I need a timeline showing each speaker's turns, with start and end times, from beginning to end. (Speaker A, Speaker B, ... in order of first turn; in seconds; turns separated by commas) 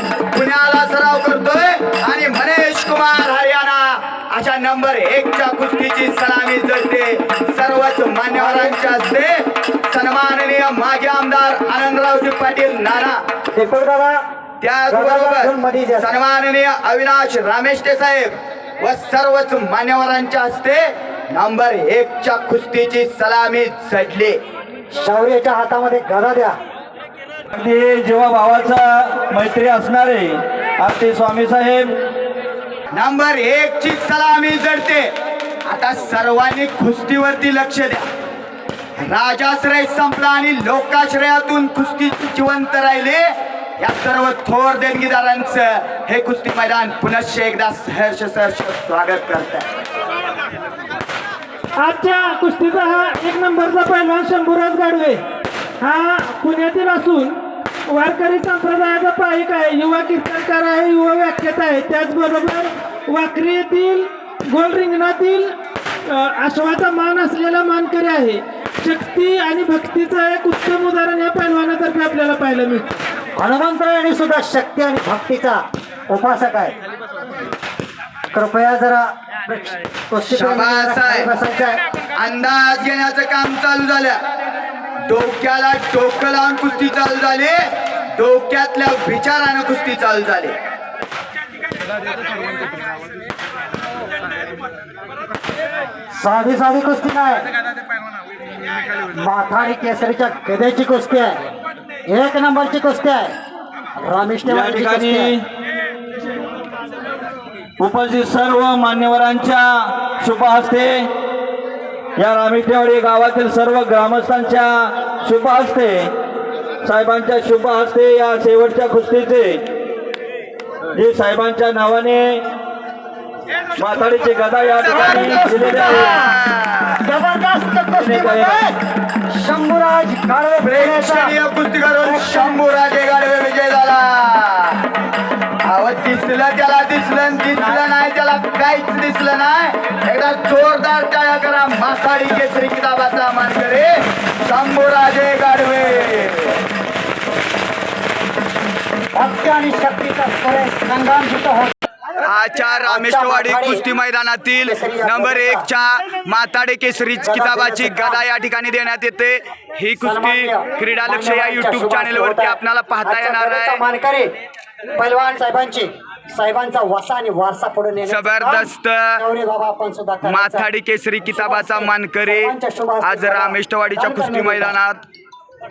Speaker A: 0.3-9.3, Speaker B: 8.3-8.9, Speaker A: 9.9-13.2, Speaker B: 13.5-14.2, Speaker A: 14.6-24.4, Speaker B: 14.9-16.2, Speaker B: 24.9-26.6, Speaker C: 27.5-31.9, Speaker A: 32.9-35.1, Speaker A: 35.7-38.0, Speaker A: 39.0-49.7, Speaker D: 51.8-55.2, Speaker D: 55.8-57.4, Speaker D: 57.9-65.5, Speaker D: 66.1-73.0, Speaker B: 73.4-76.7, Speaker B: 78.3-81.8, Speaker A: 80.3-81.3, Speaker A: 82.2-84.2, Speaker A: 85.1-87.6, Speaker A: 88.1-90.5, Speaker B: 96.1-97.4, Speaker B: 99.1-101.4, Speaker B: 102.1-103.3, Speaker B: 104.0-105.3, Speaker C: 104.4-105.4, Speaker C: 107.8-111.1, Speaker C: 112.2-116.1, Speaker C: 116.8-119.6, Speaker C: 120.9-122.4, Speaker C: 123.8-126.2, Speaker A: 124.8-127.0, Speaker B: 124.9-126.4, Speaker B: 127.0-131.3, Speaker C: 127.9-128.6, Speaker A: 130.6-134.8, Speaker B: 132.0-132.6, Speaker A: 135.6-146.6, Speaker B: 149.1-151.7, Speaker A: 152.2-163.8, Speaker B: 152.8-153.8, Speaker B: 154.6-155.6, Speaker B: 157.2-158.2, Speaker B: 160.0-164.3, Speaker B: 165.0-170.7, Speaker A: 168.0-169.2, Speaker A: 170.2-175.0, Speaker B: 171.2-174.7